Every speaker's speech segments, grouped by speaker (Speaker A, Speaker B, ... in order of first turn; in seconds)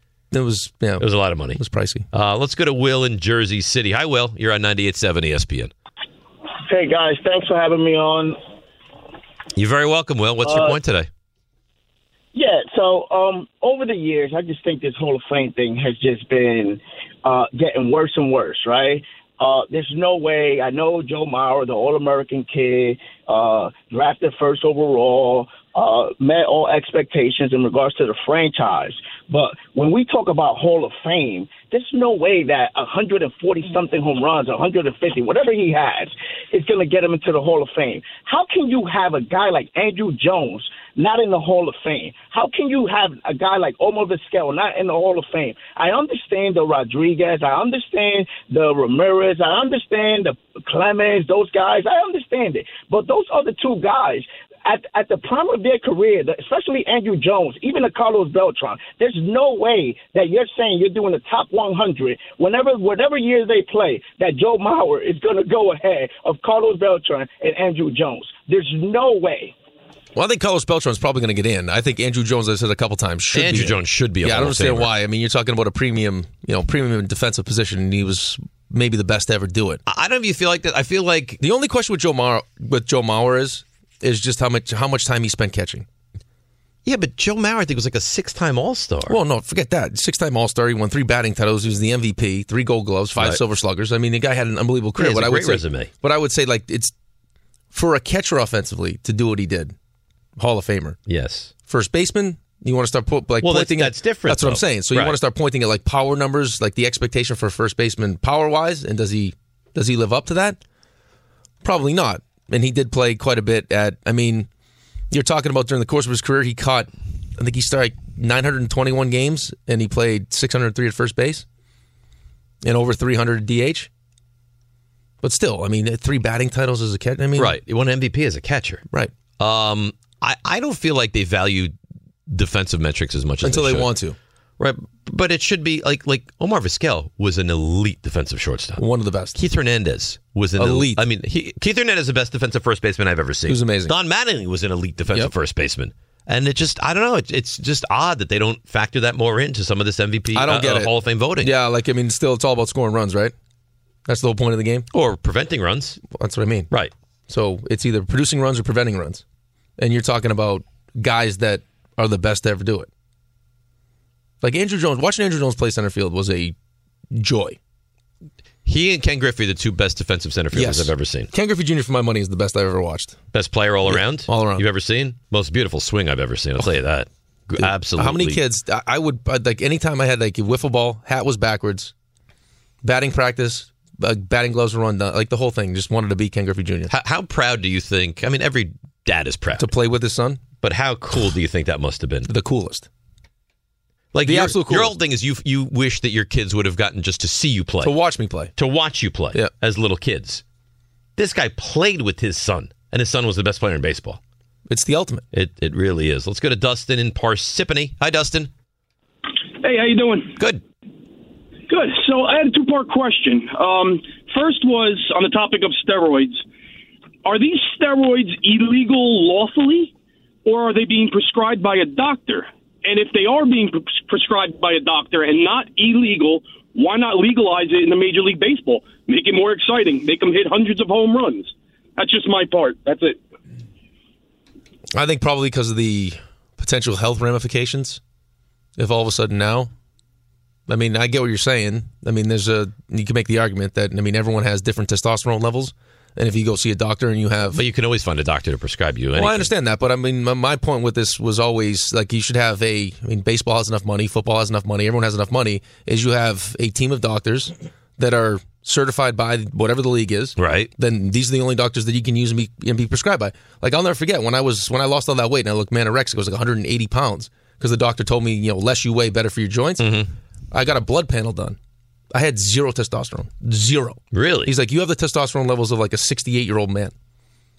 Speaker A: 0.3-2.0, 70.2-79.8, 81.4-85.9, 89.1-96.9, 97.7-99.8, 100.4-101.0, 101.7-110.6, 111.6-114.5, 115.1-121.5, 122.6-123.9, 125.2-127.6, 133.4-134.2, 138.8-139.4, 140.6-141.0, 143.5-143.9, 150.3-153.3, 154.1-154.9, 156.1-156.7, 157.3-159.2, 159.8-162.9, 164.4-166.6, 167.1-167.6, 170.5-173.2, 173.9-174.7, 177.6-181.9, 182.8-186.9, 189.6-190.4, 192.3-192.9, 194.2-194.9, 197.8-198.5, 204.7-205.2, 234.9-238.0, 238.8-239.7, 240.7-247.6, 249.2-270.0, 270.5-271.6, 272.1-276.9
Speaker B: 1.0-1.6, 2.1-5.7, 9.6-11.1, 73.3-74.9, 79.9-81.4, 86.8-89.2, 95.0-95.9, 101.1-101.5, 103.4-105.2, 127.4-128.8, 129.4-131.7, 132.3-133.9, 134.6-138.8, 139.3-151.5, 154.9-156.0, 168.7-171.3, 173.3-178.4, 186.9-189.7, 190.6-192.3, 194.1-197.9, 198.6-200.4, 201.2-204.2, 205.3-208.5, 247.5-249.5, 260.4-260.7, 269.8-270.1, 274.1-274.5
Speaker C: 6.7-8.4, 10.4-10.8, 12.3-69.5
Speaker D: 209.6-210.4, 211.7-216.4, 217.2-219.9, 220.4-233.2